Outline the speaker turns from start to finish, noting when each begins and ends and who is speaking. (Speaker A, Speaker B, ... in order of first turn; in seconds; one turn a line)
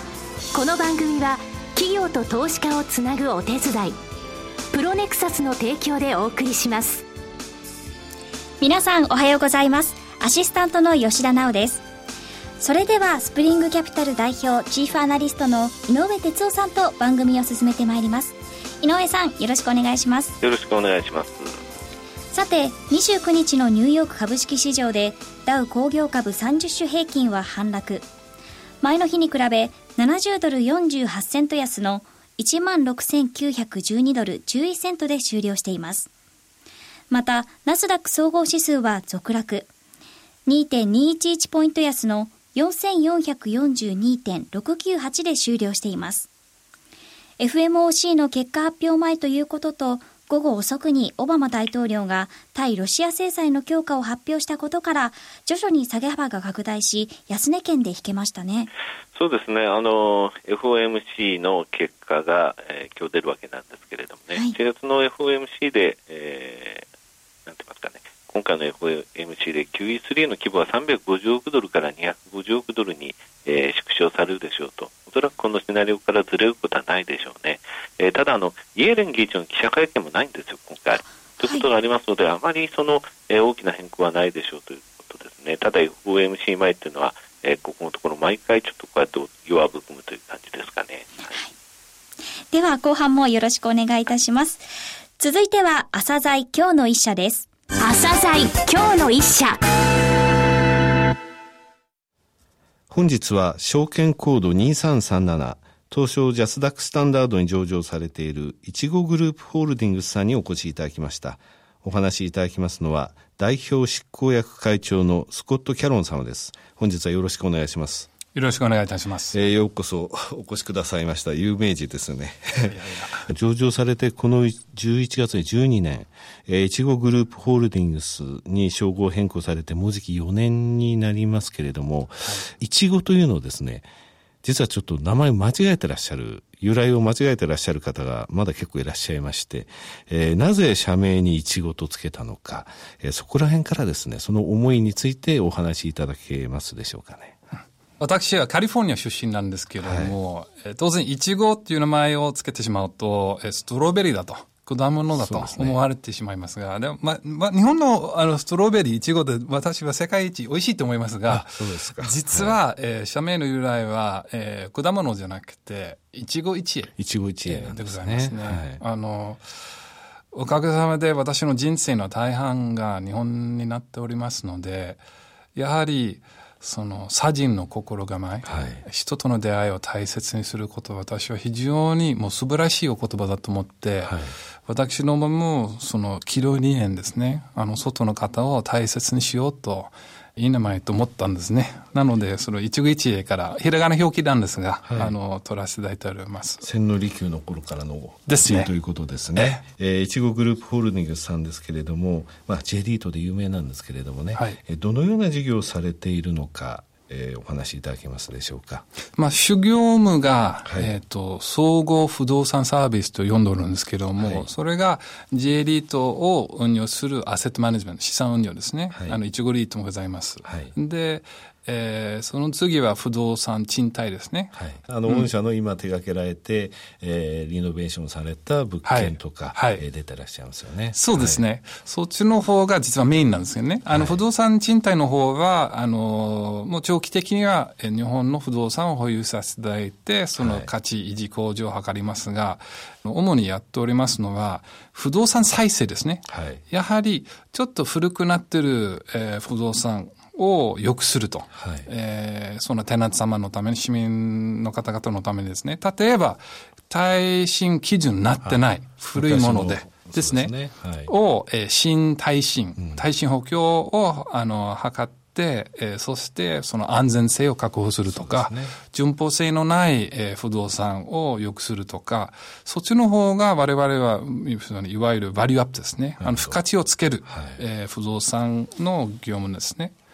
Speaker A: 0.5-4.0
Speaker A: 4.7-7.0
Speaker B: 8.6-11.8
Speaker B: 12.6-20.4
Speaker C: 20.4-21.6
Speaker B: 22.3-28.1
Speaker B: 28.8-36.1
Speaker B: 37.1-39.7
Speaker B: 40.5-46.3
Speaker B: 47.4-58.7
Speaker C: 59.1-66.9
Speaker C: 67.5-91.4
Speaker B: 92.5-94.7
Speaker B: 95.2-97.5
Speaker A: 97.8-99.6
Speaker D: 102.9-118.1
Speaker E: 118.3-119.4
Speaker D: 119.3-133.9
Speaker E: 122.6-123.3
Speaker E: 132.2-132.5
Speaker D: 134.4-147.4
Speaker E: 148.0-169.5
Speaker D: 149.8-150.2
Speaker D: 155.2-155.8
Speaker D: 161.3-162.6
Speaker D: 167.0-168.8
Speaker E: 170.3-175.0
Speaker E: 175.6-196.7
Speaker D: 178.4-178.8
Speaker D: 184.1-184.3
Speaker D: 194.8-195.1
Speaker D: 196.6-208.9
Speaker E: 198.3-198.7
Speaker E: 199.3-199.6
Speaker E: 204.3-204.6
Speaker E: 209.2-224.6
Speaker D: 210.7-210.9
Speaker D: 214.2-214.5
Speaker D: 218.9-219.2
Speaker D: 220.4-220.7
Speaker D: 224.5-231.4
Speaker E: 228.8-229.8
Speaker E: 230.9-260.5
Speaker D: 233.9-234.2
Speaker D: 240.4-240.7
Speaker D: 246.3-246.6
Speaker D: 251.5-251.9
Speaker D: 259.1-261.1
Speaker E: 261.1-279.9
Speaker D: 262.8-263.0
Speaker D: 268.1-268.7
Speaker D: 276.2-276.6
Speaker D: 277.3-277.6